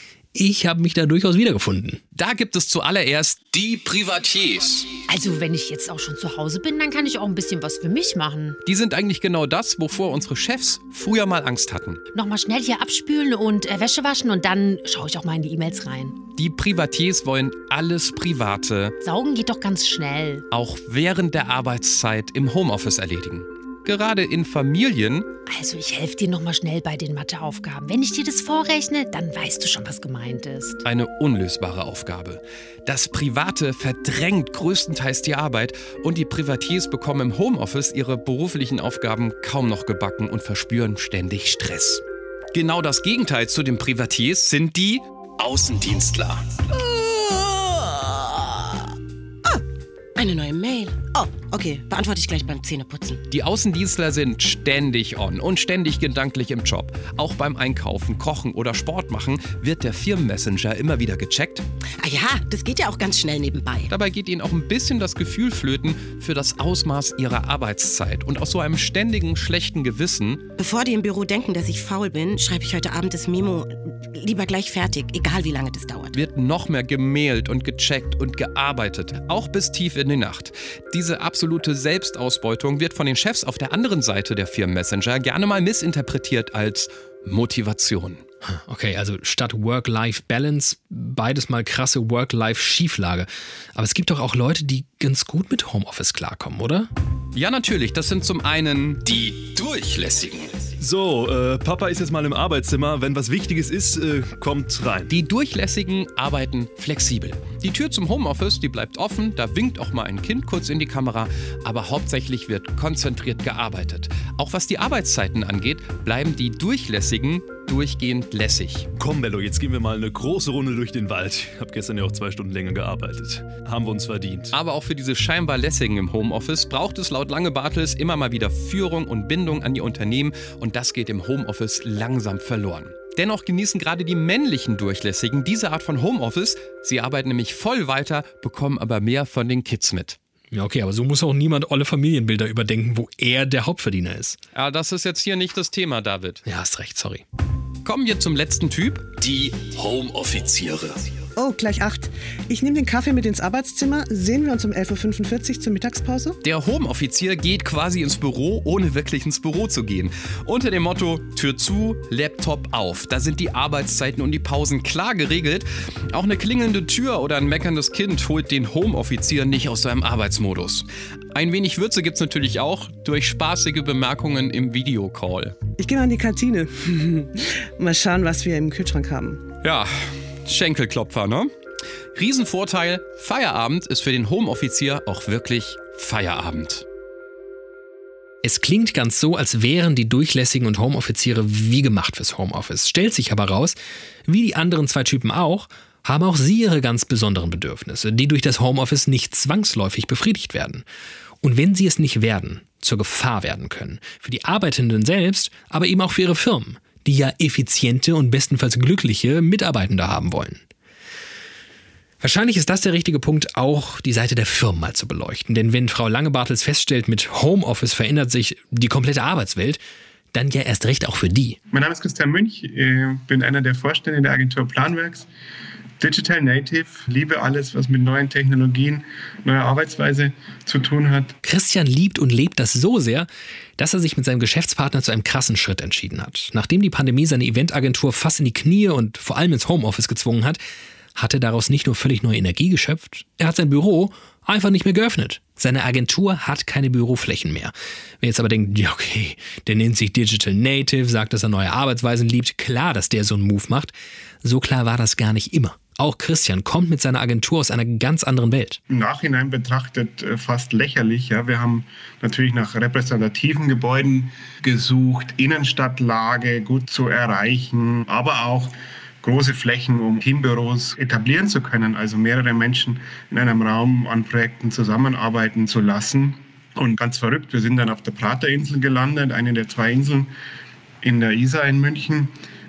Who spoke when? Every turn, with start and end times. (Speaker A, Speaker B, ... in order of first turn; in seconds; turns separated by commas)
Speaker A: 0.3-2.0, Speaker B: 2.1-5.0, Speaker C: 5.1-8.6, Speaker B: 8.6-12.0, Speaker C: 12.1-16.2, Speaker B: 16.4-18.9, Speaker C: 19.0-20.4, Speaker B: 20.5-25.3, Speaker C: 25.5-30.8, Speaker B: 30.8-46.5, Speaker D: 46.7-48.6, Speaker D: 50.2-53.2, Speaker B: 53.3-61.6, Speaker D: 62.0-63.9, Speaker B: 63.9-70.4, Speaker D: 70.6-76.2, Speaker B: 76.1-88.2, Speaker A: 88.4-96.9, Speaker B: 97.3-100.5, Speaker E: 100.8-105.1, Speaker B: 105.1-118.9, Speaker E: 119.0-124.5, Speaker B: 124.5-140.2, Speaker A: 140.5-144.4, Speaker B: 144.5-146.4, Speaker A: 146.4-147.2, Speaker B: 147.8-151.0, Speaker F: 151.4-156.4, Speaker B: 156.4-175.6, Speaker F: 175.8-179.4, Speaker B: 179.6-181.5, Speaker B: 182.1-186.8, Speaker A: 188.4-200.8, Speaker A: 201.4-210.6, Speaker A: 212.2-219.8, Speaker A: 220.3-221.6, Speaker G: 221.7-225.3, Speaker G: 226.0-231.3, Speaker A: 231.4-240.6, Speaker A: 241.2-258.8, Speaker G: 258.9-280.3, Speaker G: 281.0-282.3